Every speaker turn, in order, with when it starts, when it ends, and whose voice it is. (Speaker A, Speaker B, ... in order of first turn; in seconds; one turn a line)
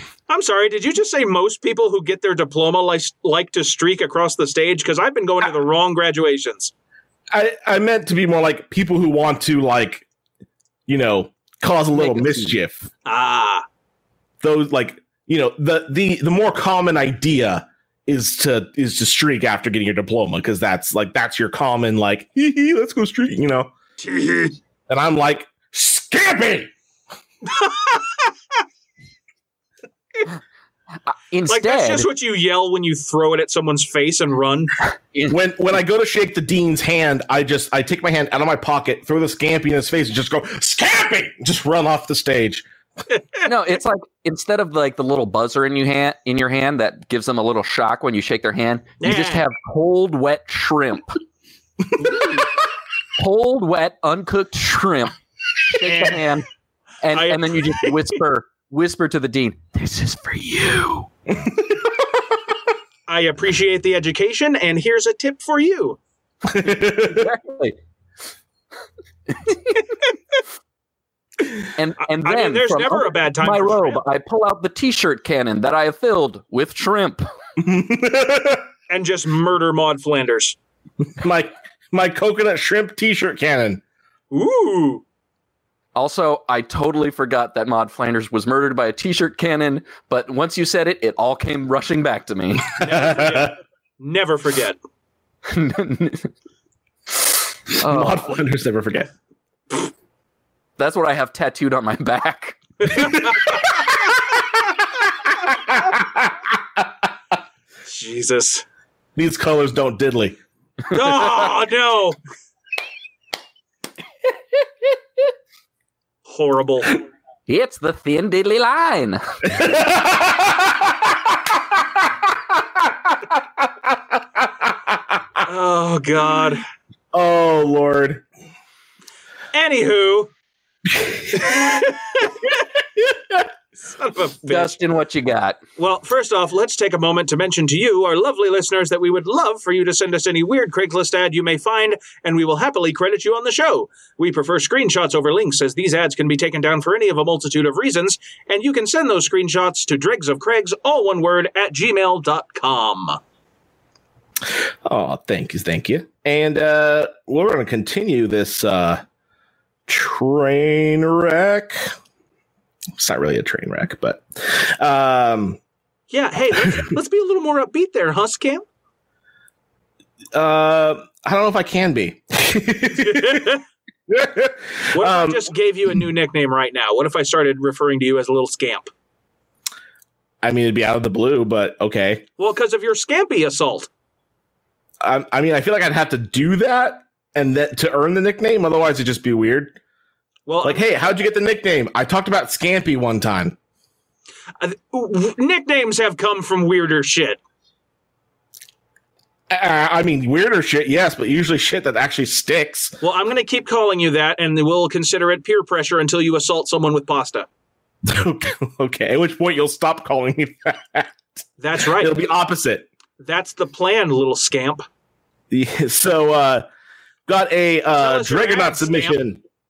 Speaker A: 0.3-6.7
Speaker B: 7.3-10.1
Speaker B: 10.9-12.9
Speaker C: 11.9-12.6
Speaker A: 13.1-13.6
Speaker B: 14.4-23.7
Speaker A: 24.0-24.6
Speaker B: 24.9-26.7
Speaker A: 27.4-28.3
Speaker C: 31.1-32.1
Speaker A: 31.5-34.7
Speaker B: 35.3-42.6
Speaker A: 43.1-43.4
Speaker C: 43.4-51.2
Speaker A: 49.0-49.5
Speaker A: 52.0-52.4
Speaker C: 53.2-56.5
Speaker A: 55.8-56.3
Speaker C: 57.0-61.1
Speaker A: 57.1-58.0
Speaker B: 61.3-61.9
Speaker A: 63.1-66.0
Speaker B: 66.5-67.3
Speaker C: 67.0-67.8
Speaker C: 69.3-69.8
Speaker C: 71.8-77.2
Speaker A: 72.2-74.0
Speaker B: 77.6-78.6
Speaker A: 78.9-80.6
Speaker B: 81.2-83.8
Speaker A: 84.3-85.0
Speaker C: 85.9-92.7
Speaker B: 92.8-93.5
Speaker A: 92.8-94.8
Speaker C: 95.5-96.3
Speaker C: 97.2-98.2
Speaker B: 97.8-99.1
Speaker C: 100.8-102.9
Speaker A: 102.8-103.6
Speaker B: 103.0-103.5
Speaker B: 105.5-106.9
Speaker A: 107.9-108.6
Speaker B: 109.2-110.4
Speaker A: 110.9-112.2
Speaker A: 116.3-117.0
Speaker C: 117.5-119.2
Speaker B: 119.5-121.1
Speaker B: 123.3-125.2
Speaker A: 125.4-126.6
Speaker B: 127.1-128.2
Speaker A: 129.5-130.3
Speaker B: 130.9-131.7
Speaker A: 131.4-132.3
Speaker B: 133.0-133.4
Speaker A: 133.8-134.8
Speaker C: 134.4-135.6
Speaker A: 135.8-153.2
Speaker B: 154.8-159.0
Speaker B: 159.9-161.9
Speaker B: 163.0-165.6
Speaker A: 166.1-168.6
Speaker B: 170.3-173.6
Speaker A: 173.0-173.6
Speaker B: 174.1-175.5
Speaker A: 174.9-178.9
Speaker B: 180.4-182.2
Speaker A: 182.4-183.9
Speaker B: 185.0-189.8
Speaker A: 190.5-190.8
Speaker B: 190.6-193.5
Speaker A: 194.6-197.4
Speaker B: 199.5-202.9
Speaker A: 203.0-207.5
Speaker B: 208.1-211.4
Speaker A: 211.6-212.2
Speaker B: 212.0-212.9
Speaker A: 213.2-214.8
Speaker B: 215.5-216.7
Speaker B: 217.3-219.4
Speaker A: 218.0-219.2